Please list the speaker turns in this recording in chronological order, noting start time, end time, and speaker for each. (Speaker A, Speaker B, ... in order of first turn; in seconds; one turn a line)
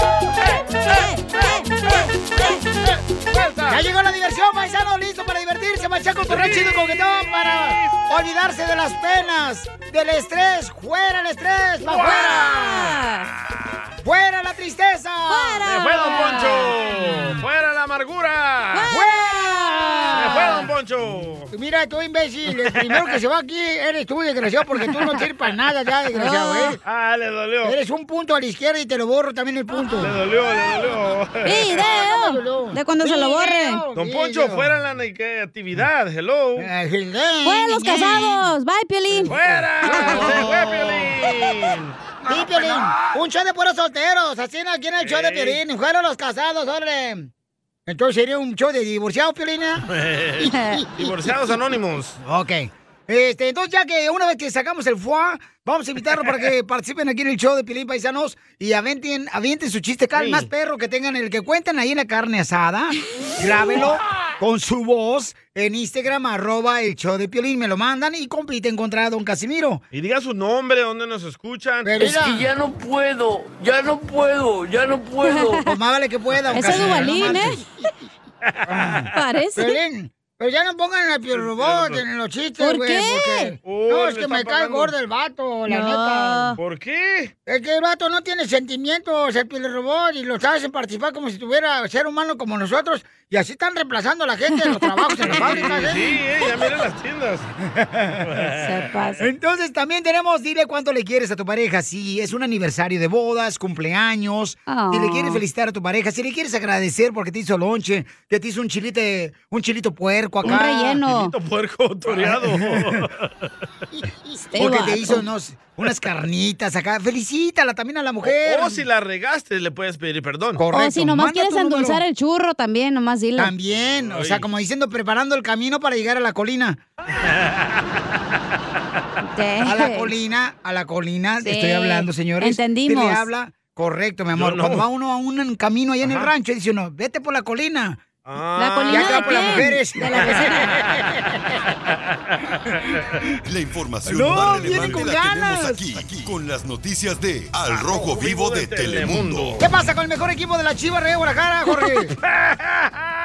Speaker A: 0.8-2.6
Speaker B: 3.7-12.9
Speaker C: 6.3-7.9
Speaker A: 11.9-13.3
Speaker B: 14.0-15.6
Speaker A: 15.3-16.7
Speaker C: 15.6-18.9
Speaker B: 16.9-17.3
Speaker A: 18.7-20.7
Speaker B: 18.9-20.6
Speaker C: 20.1-21.5
Speaker B: 21.5-26.8
Speaker C: 22.6-23.1
Speaker A: 26.1-26.8
Speaker C: 26.8-27.8
Speaker B: 27.6-30.1
Speaker C: 30.0-31.8
Speaker A: 31.4-33.8
Speaker B: 31.8-34.7
Speaker C: 33.9-36.7
Speaker B: 36.6-38.5
Speaker A: 37.4-39.3
Speaker B: 39.1-40.8
Speaker C: 39.3-42.0
Speaker A: 40.0-40.4
Speaker B: 42.2-47.3
Speaker C: 45.0-45.6
Speaker B: 47.9-49.9
Speaker C: 49.9-52.2
Speaker A: 50.4-50.8
Speaker B: 50.8-51.1
Speaker B: 52.2-69.8
Speaker C: 60.1-60.5
Speaker C: 69.9-72.2
Speaker B: 71.8-72.5
Speaker D: 72.0-75.5
Speaker A: 75.2-75.7
Speaker B: 75.6-77.8
Speaker A: 76.5-77.6
Speaker C: 78.5-79.1
Speaker B: 78.7-86.5
Speaker A: 79.1-79.8
Speaker C: 81.3-82.0
Speaker A: 82.6-83.5
Speaker C: 83.6-84.9
Speaker A: 85.7-86.6
Speaker C: 86.6-87.3
Speaker B: 87.5-96.1
Speaker A: 94.5-95.7
Speaker C: 95.3-97.5
Speaker B: 97.8-98.2
Speaker C: 98.2-99.2
Speaker A: 98.6-99.2
Speaker B: 99.2-111.0
Speaker A: 104.7-105.4
Speaker A: 110.4-111.3
Speaker C: 110.4-113.5
Speaker B: 112.2-112.7
Speaker B: 114.2-118.8
Speaker A: 114.5-115.2
Speaker C: 118.2-120.6
Speaker B: 120.6-122.0
Speaker A: 120.7-123.5
Speaker B: 123.4-126.8
Speaker C: 123.8-124.5
Speaker A: 129.3-130.1
Speaker B: 129.6-138.0
Speaker A: 131.4-133.3
Speaker C: 134.3-134.8
Speaker C: 136.0-136.3
Speaker C: 138.2-140.5
Speaker A: 138.6-140.8
Speaker B: 138.9-141.2
Speaker C: 142.3-142.8
Speaker E: 143.4-149.6
Speaker B: 144.1-146.1
Speaker C: 147.7-149.6
Speaker B: 149.6-152.1
Speaker C: 152.3-153.0